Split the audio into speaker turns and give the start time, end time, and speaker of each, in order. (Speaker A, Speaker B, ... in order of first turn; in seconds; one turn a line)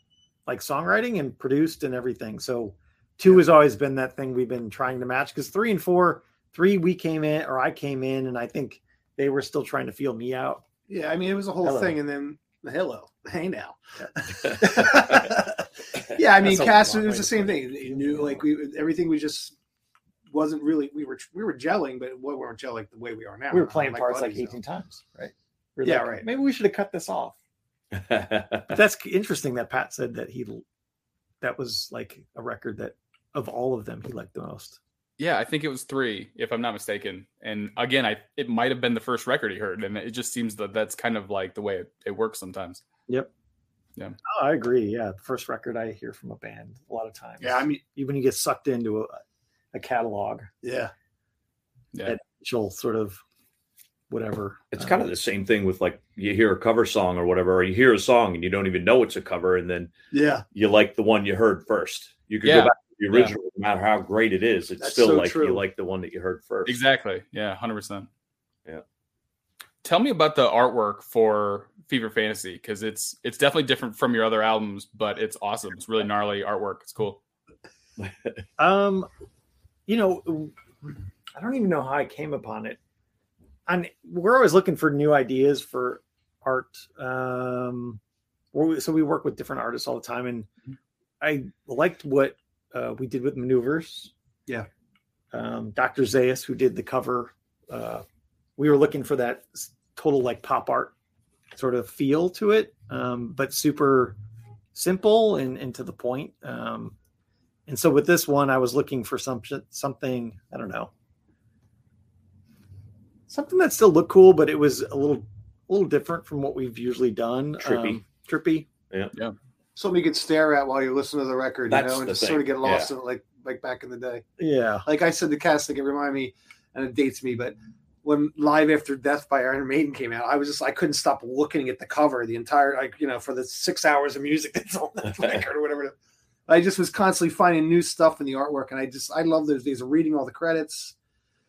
Speaker A: 0.5-10.6
Speaker B: 10.9-19.6
Speaker A: 11.6-12.0
Speaker A: 16.4-18.4
Speaker B: 20.3-24.6
Speaker A: 23.5-27.4
Speaker B: 25.8-26.2
Speaker C: 27.9-28.7
Speaker A: 28.7-30.6
Speaker A: 31.4-34.8
Speaker D: 35.2-42.8
Speaker A: 44.2-49.2
Speaker B: 47.4-47.8
Speaker A: 49.7-50.5
Speaker B: 50.6-50.9
Speaker A: 52.0-53.2
Speaker A: 54.1-55.1
Speaker C: 54.7-59.9
Speaker B: 60.1-60.4
Speaker C: 60.5-66.8
Speaker D: 62.4-63.3
Speaker B: 64.8-65.6
Speaker D: 66.7-68.1
Speaker D: 69.8-77.2
Speaker A: 78.6-79.1
Speaker A: 79.9-80.5
Speaker A: 81.3-82.8
Speaker A: 83.7-88.0
Speaker A: 88.5-90.5
Speaker A: 91.2-94.1
Speaker A: 95.3-98.0
Speaker A: 98.6-100.9
Speaker A: 101.5-104.2
Speaker A: 104.7-107.0
Speaker A: 107.7-110.9
Speaker A: 113.3-118.7
Speaker C: 117.6-118.0
Speaker B: 119.8-124.2
Speaker C: 121.7-122.9
Speaker A: 124.4-124.8
Speaker B: 124.8-135.9
Speaker B: 136.5-140.9